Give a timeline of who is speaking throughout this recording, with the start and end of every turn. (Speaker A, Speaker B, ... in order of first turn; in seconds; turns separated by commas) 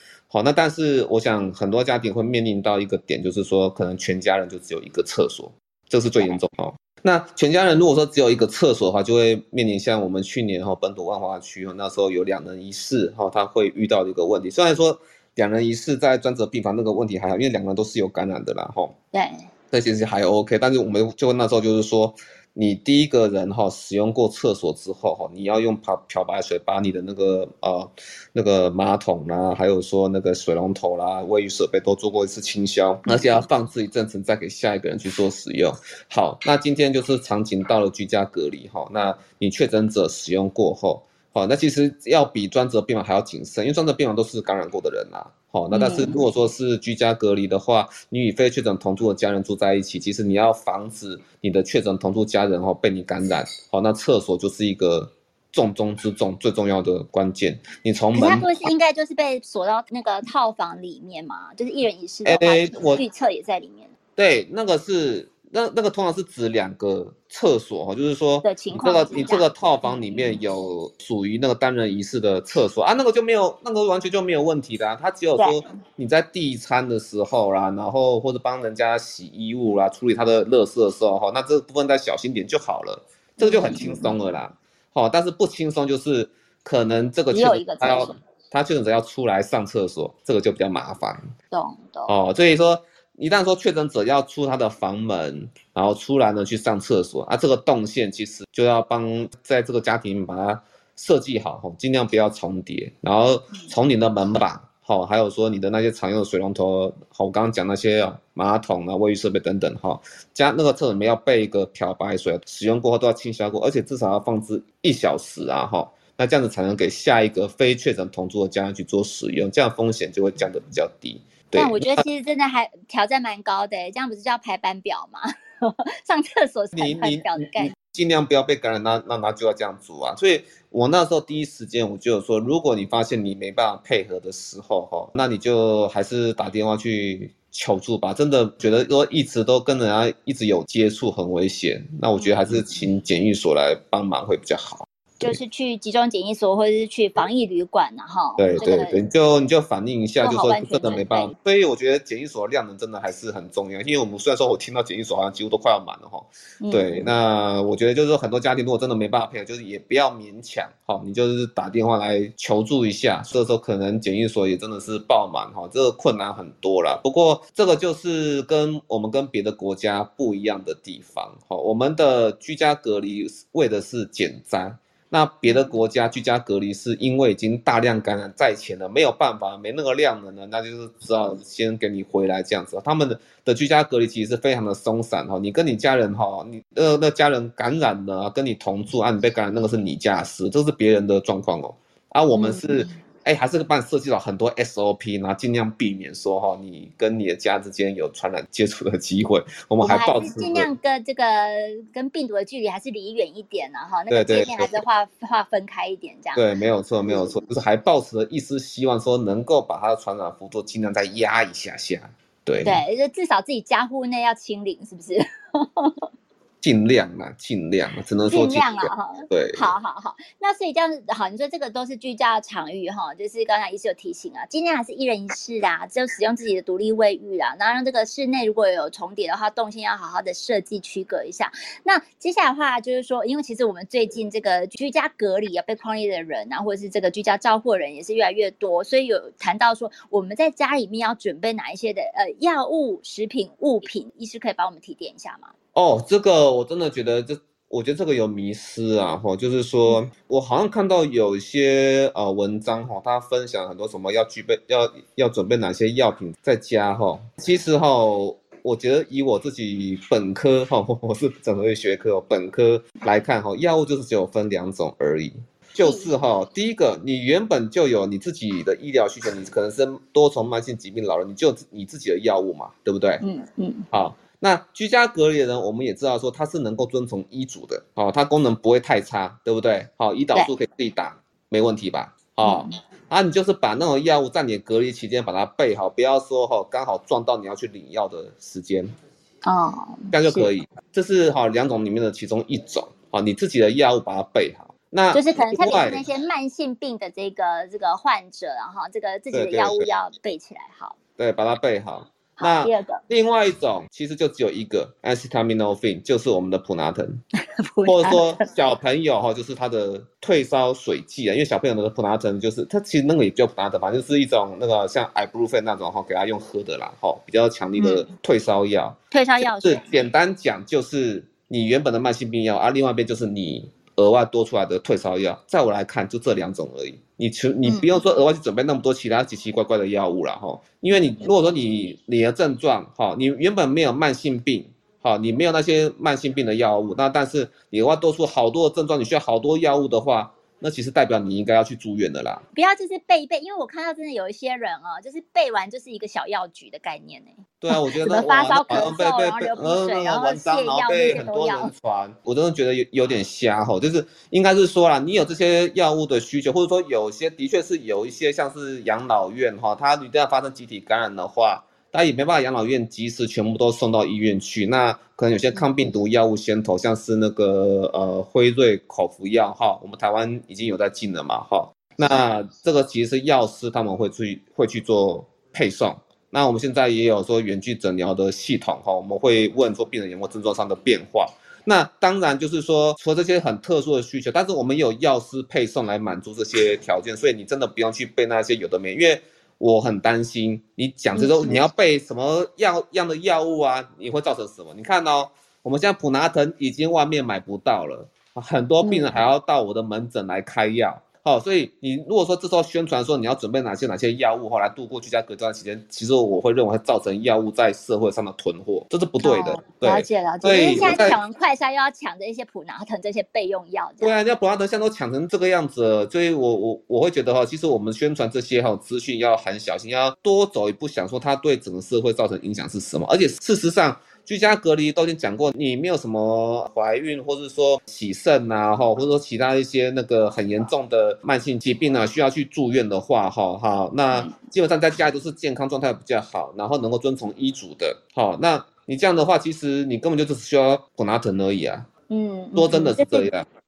Speaker A: 0.3-18.9, Speaker B: 19.1-19.5, Speaker A: 19.7-58.7, Speaker B: 45.7-46.2, Speaker B: 58.2-63.9, Speaker A: 62.2-63.0, Speaker A: 64.2-91.3, Speaker B: 68.4-69.4, Speaker B: 83.4-84.2, Speaker B: 87.3-88.2, Speaker B: 91.5-92.1, Speaker A: 92.1-122.0, Speaker B: 121.6-127.7, Speaker A: 126.7-145.3, Speaker B: 142.2-142.5, Speaker B: 145.2-149.0, Speaker A: 148.4-200.7, Speaker B: 150.2-151.3, Speaker B: 156.6-157.1, Speaker B: 192.3-192.9, Speaker B: 199.8-206.4, Speaker A: 204.1-204.8, Speaker A: 206.3-212.8, Speaker B: 212.6-216.1, Speaker A: 216.6-219.7, Speaker B: 218.3-245.5, Speaker A: 245.8-273.2, Speaker B: 265.8-266.1, Speaker B: 273.2-273.9, Speaker A: 273.9-288.9, Speaker B: 282.4-282.8, Speaker B: 289.4-290.5, Speaker A: 290.1-296.0, Speaker B: 295.1-301.0, Speaker A: 299.3-299.9, Speaker A: 301.2-307.2, Speaker B: 302.4-303.0, Speaker B: 307.4-308.4, Speaker A: 307.9-342.4, Speaker B: 317.8-318.1, Speaker B: 319.1-319.9, Speaker B: 342.6-351.7, Speaker A: 347.6-411.2, Speaker B: 391.1-391.6, Speaker B: 398.8-399.2, Speaker B: 409.2-414.1, Speaker A: 414.0-441.9, Speaker B: 442.1-443.3, Speaker A: 442.5-443.5